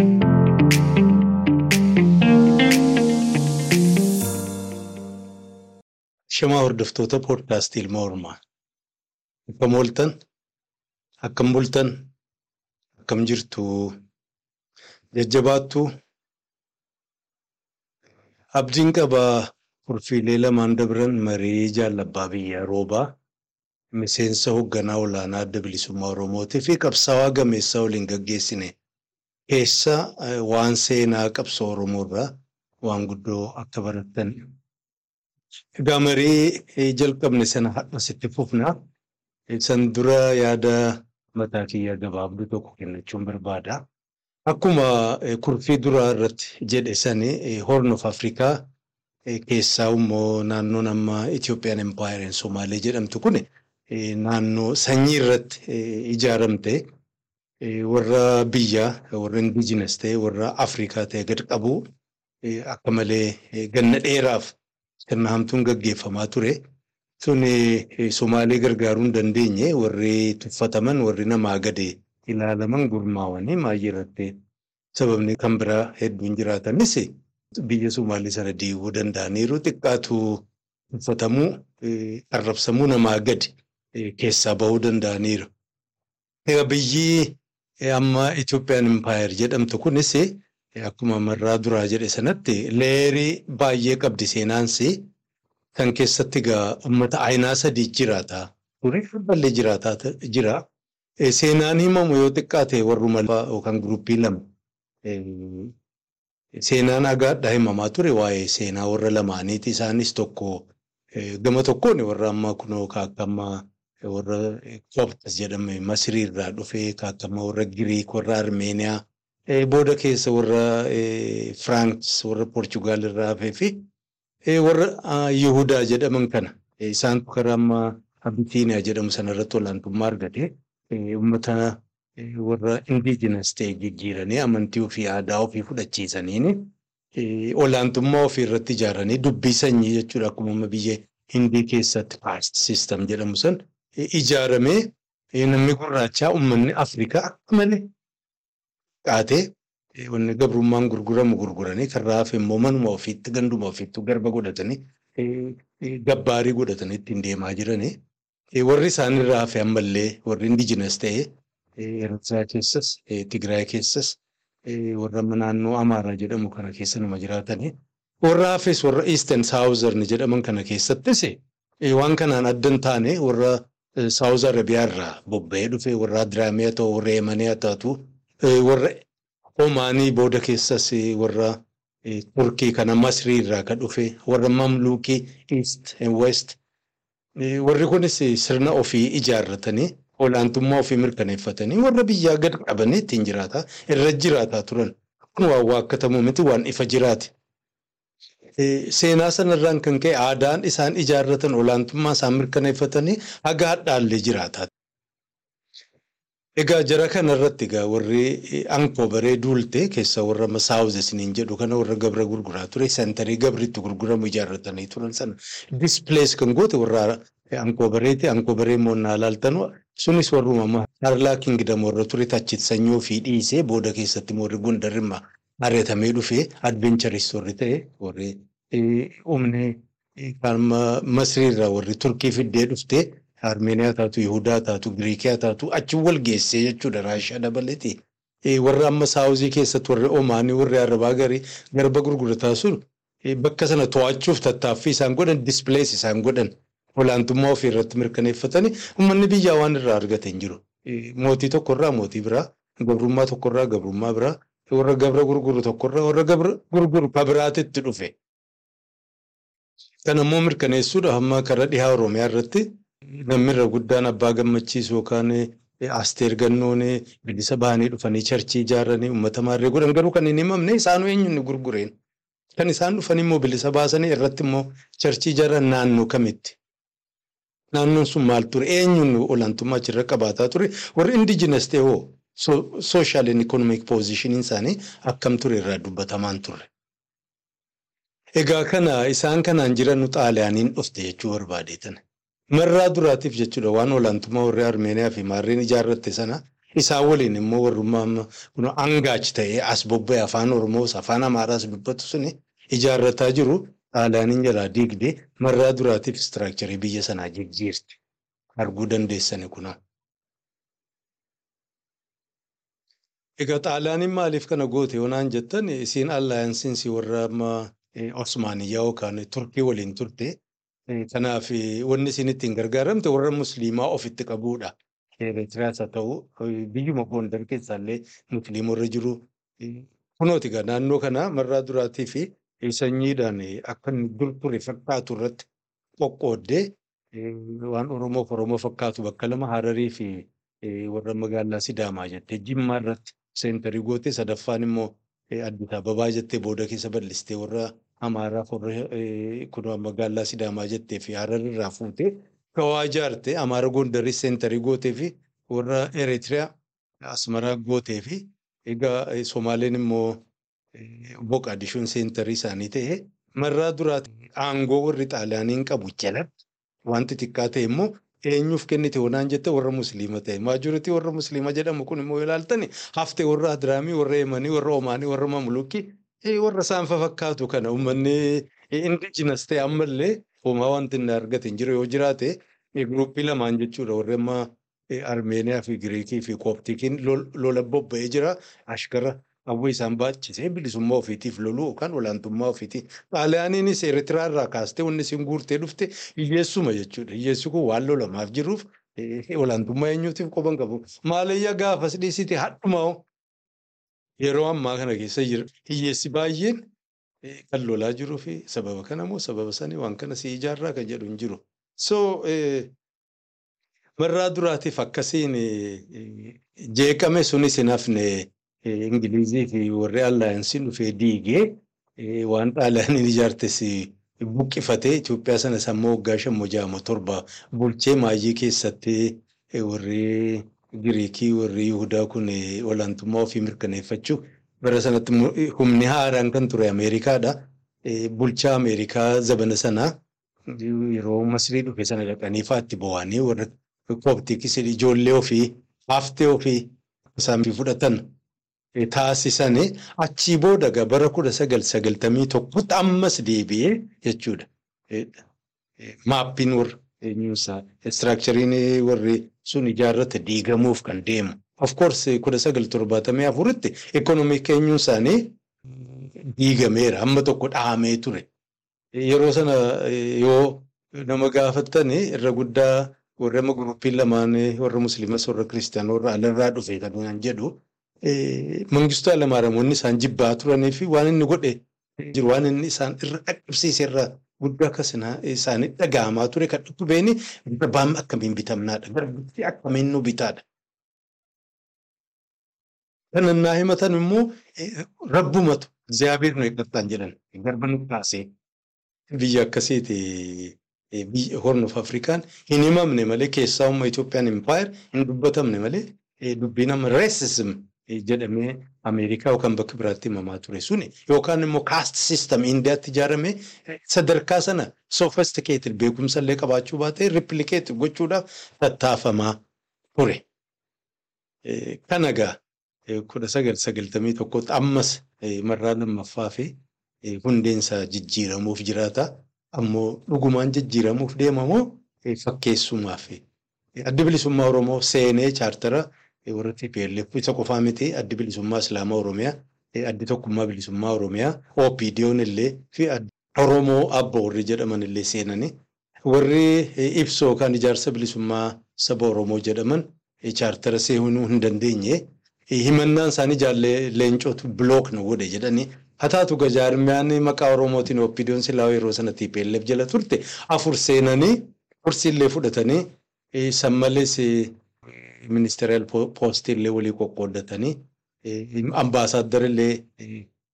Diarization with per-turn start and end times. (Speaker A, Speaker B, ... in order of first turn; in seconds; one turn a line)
Speaker A: 6.3-8.4
Speaker A: 9.5-10.2
Speaker A: 11.2-12.0
Speaker A: 13.0-13.9
Speaker A: 15.2-15.8
Speaker A: 18.6-23.1
Speaker A: 24.0-28.7
Speaker A: 29.5-32.3
Speaker A: 32.8-34.5
Speaker A: 35.8-38.8
Speaker A: 39.5-43.8
Speaker A: 44.5-48.6
Speaker A: 49.3-56.8
Speaker A: 57.6-61.8
Speaker A: 62.4-66.6
Speaker A: 67.2-74.3
Speaker A: 75.0-77.1
Speaker A: 77.6-85.5
Speaker A: 86.5-95.0
Speaker A: 95.8-100.6
Speaker A: 101.2-104.4
Speaker A: 105.0-105.7
Speaker A: 106.5-123.8
Speaker A: 124.5-147.9
Speaker A: 149.1-157.9
Speaker A: 158.6-167.7
Speaker A: 168.2-179.0
Speaker A: 179.6-186.6
Speaker A: 187.4-197.3
Speaker A: 198.6-204.7
Speaker A: 206.6-258.1
Speaker A: 260.0-262.6
Speaker A: 263.3-271.9
Speaker A: 272.6-276.6
Speaker A: 277.7-286.7
Speaker A: 288.4-292.0
Speaker A: 292.5-308.0
Speaker A: 308.6-309.8
Speaker A: 313.4-320.4
Speaker A: 320.9-335.5
Speaker A: 336.0-356.5
Speaker A: 357.0-360.2
Speaker A: 360.7-366.3
Speaker A: 366.9-403.1
Speaker A: 404.2-406.7
Speaker A: 407.2-412.7
Speaker A: 414.0-439.9
Speaker A: 440.5-448.0
Speaker A: 448.8-455.2
Speaker A: 455.8-468.3
Speaker A: 469.0-490.4
Speaker A: 493.1-498.3
Speaker A: 499.1-519.4
Speaker A: 520.0-520.2
Speaker A: 521.4-522.4
Speaker A: 522.9-526.5
Speaker A: 527.0-533.2
Speaker A: 533.8-545.5
Speaker A: 546.1-552.0
Speaker A: 552.5-562.8
Speaker A: 563.3-564.5
Speaker A: 565.2-570.3